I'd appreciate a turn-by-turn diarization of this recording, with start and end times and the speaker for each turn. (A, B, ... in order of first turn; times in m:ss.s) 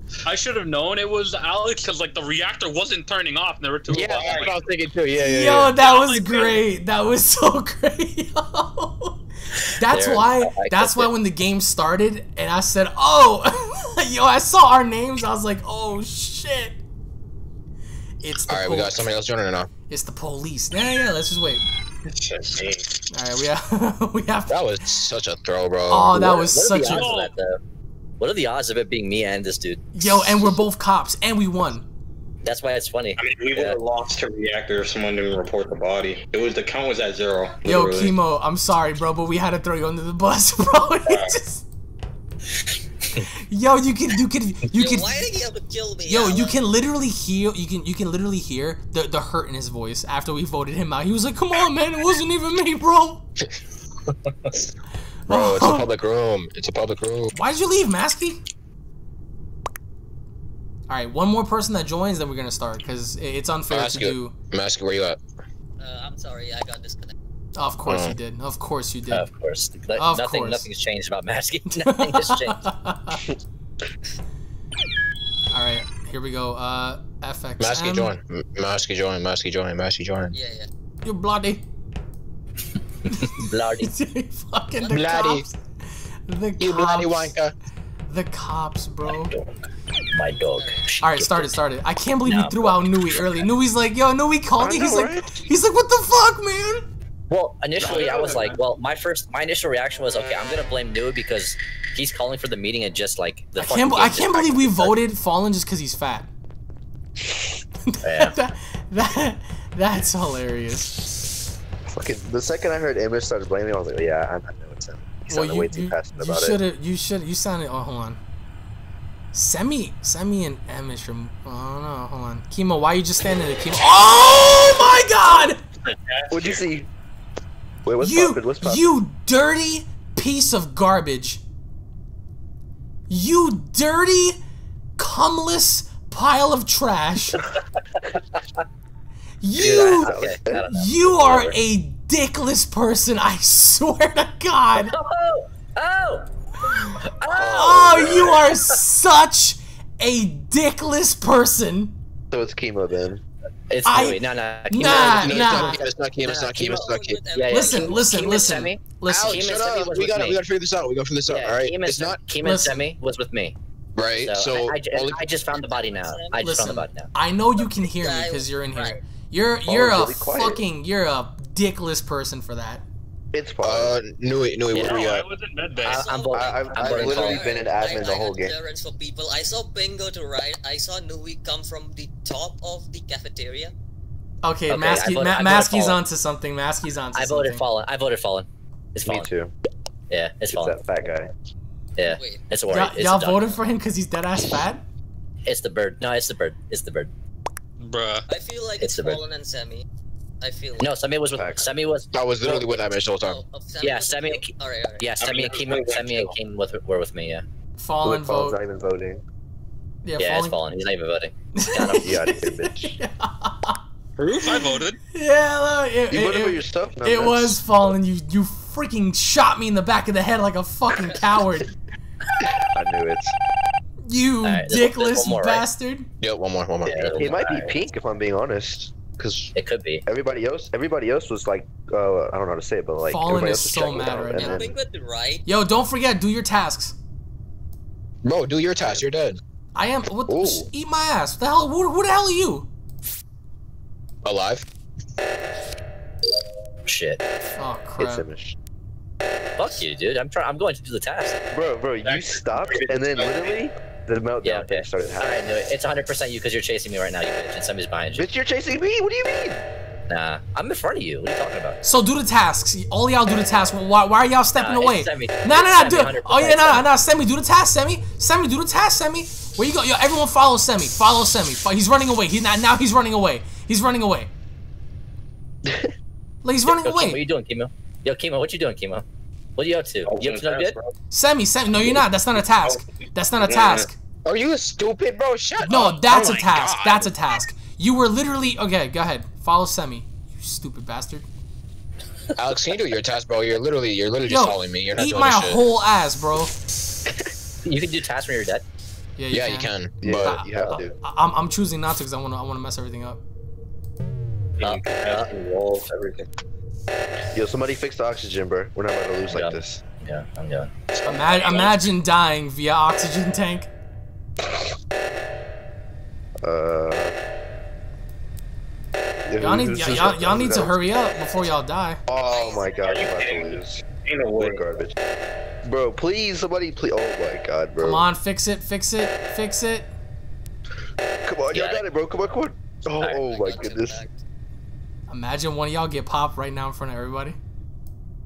0:00.2-0:04.6 A
0:03.9-0:05.8 B
0:04.1-0:04.6 C
0:05.2-0:16.8 D
0:05.8-0:06.7 A
0:09.6-0:11.1 E
0:18.2-0:19.1 D
0:18.5-0:19.7 B
0:19.9-0:21.6 D
0:22.0-0:22.9 C
0:23.1-0:25.1 D
0:24.5-0:26.2 B
0:25.9-0:27.1 D
0:26.1-0:27.6 E
0:26.9-0:27.3 A
0:28.2-0:30.1 E
0:29.9-0:31.8 D
0:32.4-0:33.8 E
0:33.2-0:38.2 C
0:37.6-0:41.6 D
0:41.1-0:41.4 C
0:43.2-0:45.3 D
0:44.7-0:46.5 F
0:46.1-0:53.2 D
0:55.3-0:55.9 D
0:55.3-0:57.3 B
0:57.3-0:58.4 D
1:00.9-1:04.3 D
1:03.7-1:05.2 B
1:05.8-1:07.2 F
1:07.6-1:09.3 D
1:07.9-1:08.2 B
1:09.1-1:12.7 E
1:10.0-1:10.7 D
1:11.8-1:13.2 D
1:15.5-1:18.1 D
1:17.6-1:20.4 B
1:20.3-1:20.7 F
1:21.0-1:21.6 D
1:23.1-1:25.6 D
1:23.3-1:23.9 E
1:24.8-1:25.2 F
1:24.9-1:25.4 B
1:26.3-1:27.4 D
1:26.6-1:27.5 B
1:28.1-1:29.3 D
1:29.1-1:29.6 E
1:30.1-1:31.5 E
1:30.5-1:30.9 F
1:31.0-1:36.8 D
1:32.2-1:32.8 E
1:34.6-1:35.4 G
1:37.3-1:45.0 E
1:37.8-1:38.6 C
1:38.0-1:38.4 G
1:43.6-1:46.3 D
1:47.9-1:50.9 D
1:48.0-1:48.4 E
1:51.9-1:56.6 G
1:55.3-1:58.2 D
1:59.3-2:05.6 D
2:05.9-2:06.6 C
2:06.3-2:06.9 G
2:07.8-2:08.8 G
2:08.0-2:11.4 D
2:13.1-2:14.4 D
2:15.0-2:17.4 D
2:19.4-2:24.9 D
2:19.6-2:19.9 B
2:19.6-2:21.6 E
2:20.1-2:20.6 G
2:24.8-2:26.2 E
2:26.8-2:31.9 D
2:27.0-2:28.7 E
2:27.3-2:28.4 B
2:32.3-2:33.2 G
2:33.7-2:40.4 E
2:33.8-2:35.8 D
2:34.8-2:37.2 B
2:36.5-2:38.0 F
2:37.5-2:39.5 D
2:39.1-2:42.2 B
2:41.3-2:43.6 E
2:42.4-2:42.9 D
2:44.0-2:45.3 B
2:44.2-2:47.1 E
2:45.5-2:46.5 F
2:46.4-2:52.8 D
2:47.8-2:49.0 F
2:49.7-2:50.6 G
2:53.3-2:54.0 G
2:53.6-2:55.3 B
2:54.7-2:55.1 E
2:54.8-2:56.0 A
2:55.8-3:03.7 F
2:55.8-2:57.4 E
2:56.3-2:58.6 G
3:04.4-3:07.6 D
3:04.7-3:06.0 E
3:07.2-3:09.3 E
3:09.0-3:09.5 G
3:10.1-3:10.8 E
3:10.5-3:11.3 G
3:12.0-3:13.6 E
3:12.0-3:12.4 F
3:12.7-3:14.8 D
3:15.5-3:17.1 E
3:17.8-3:18.2 A
3:18.3-3:19.9 F
3:18.8-3:19.2 E
3:20.4-3:20.9 F
3:20.8-3:22.2 E
3:21.3-3:21.7 G
3:22.1-3:23.4 B
3:22.5-3:25.1 F
3:23.8-3:27.4 E
3:25.2-3:26.4 C
3:27.8-3:28.6 D
3:28.0-3:29.2 G
3:30.0-3:30.6 D
3:30.2-3:32.1 E
3:31.6-3:33.8 D
3:32.0-3:33.0 G
3:34.2-3:35.0 A
3:34.4-3:41.7 D
3:36.1-3:37.6 G
3:42.4-3:43.3 G
3:44.1-3:46.1 D
3:44.4-3:45.7 E
3:46.2-3:47.5 B
3:46.8-3:47.8 E
3:47.2-3:49.6 G
3:49.6-3:50.0 E
3:50.1-3:54.8 G
3:53.0-3:54.6 D
3:54.0-3:55.4 F
3:55.5-3:57.0 D
3:58.2-3:59.4 B
3:58.8-3:59.1 G
3:59.8-4:02.7 D
4:00.3-4:00.7 G
4:04.2-4:04.7 B
4:06.9-4:07.2 E
4:07.6-4:08.3 D
4:08.0-4:08.6 G
4:09.6-4:11.4 E
4:11.5-4:15.4 G
4:12.0-4:13.6 C
4:14.4-4:18.3 E
4:18.1-4:19.6 G
4:20.1-4:21.8 E
4:21.8-4:34.3 D
4:24.6-4:26.9 E
4:35.6-4:35.9 G
4:36.4-4:37.2 D
4:36.6-4:39.0 E
4:39.6-4:40.8 E
4:40.1-4:40.9 C
4:41.1-4:43.9 D
4:41.8-4:42.0 C
4:43.4-4:43.9 C
4:44.2-4:47.1 B
4:45.6-4:51.3 D
4:52.4-4:55.6 B
4:54.3-4:56.5 D
4:57.6-4:58.6 E
4:59.2-5:03.2 D
4:59.3-5:00.4 B
5:00.0-5:01.0 G
5:00.5-5:00.8 E
5:04.6-5:06.3 C
5:04.6-5:05.3 E
5:07.3-5:09.8 G
5:09.3-5:10.7 E
5:11.0-5:11.8 C
5:11.1-5:13.7 D
5:16.4-5:17.2 G
5:19.3-5:20.7 G
5:19.4-5:22.0 D
5:22.1-5:23.8 G
5:22.3-5:24.6 C
5:24.4-5:24.9 G
5:25.6-5:28.1 G
5:27.8-5:29.9 D
5:31.2-5:34.0 G
5:31.5-5:31.8 E
5:33.0-5:33.3 E
5:33.3-5:34.2 F
5:35.1-5:37.4 D